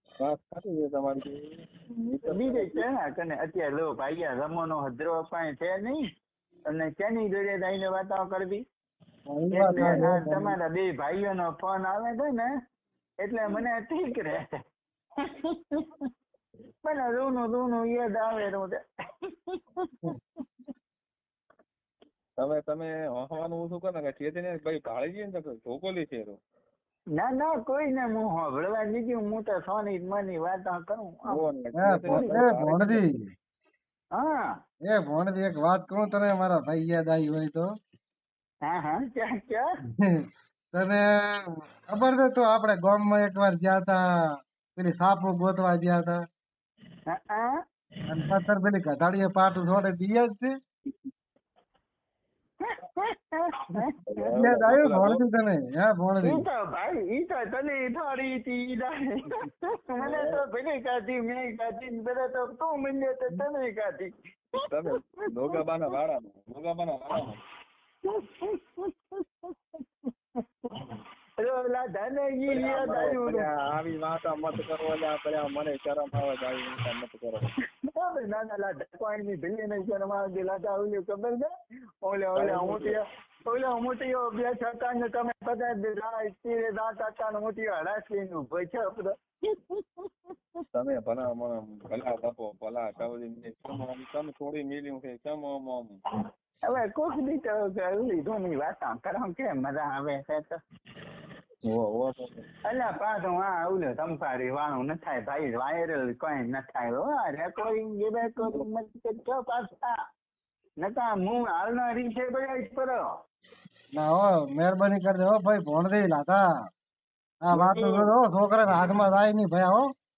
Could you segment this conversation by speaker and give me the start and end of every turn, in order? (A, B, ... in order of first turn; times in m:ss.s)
0:00.2-0:02.8 A
0:02.2-0:06.0 B
0:06.7-0:08.6 B
0:09.3-0:10.6 C
0:09.5-0:12.5 B
0:09.7-0:10.1 A
0:13.2-0:14.6 B
0:15.2-0:16.1 B
0:16.8-0:20.0 B
0:22.4-0:26.4 A
0:27.2-0:31.4 B
0:31.3-0:33.0 A
0:31.8-0:33.2 C
0:34.1-0:34.5 B
0:34.8-0:37.7 C
0:38.6-0:39.6 B
0:39.9-0:44.0 C
0:44.7-0:46.2 C
0:47.1-0:47.6 B
0:48.1-0:50.5 C
0:52.6-0:54.3 B
0:54.0-0:55.2 A
0:54.3-0:56.4 C
0:56.2-1:04.7 B
1:00.0-1:00.4 A
1:04.6-1:07.4 A
1:08.0-1:09.6 B
1:11.4-1:13.5 B
1:12.5-1:17.5 A
1:17.9-1:21.5 B
1:22.0-1:30.1 B
1:22.3-1:23.0 A
1:30.7-1:36.0 A
1:36.6-1:40.6 B
1:41.6-1:42.5 A
1:42.6-1:50.0 B
1:48.4-1:48.7 A
1:50.8-1:53.0 B
1:53.9-1:56.4 C
1:57.4-1:59.9 C
1:57.5-1:58.1 A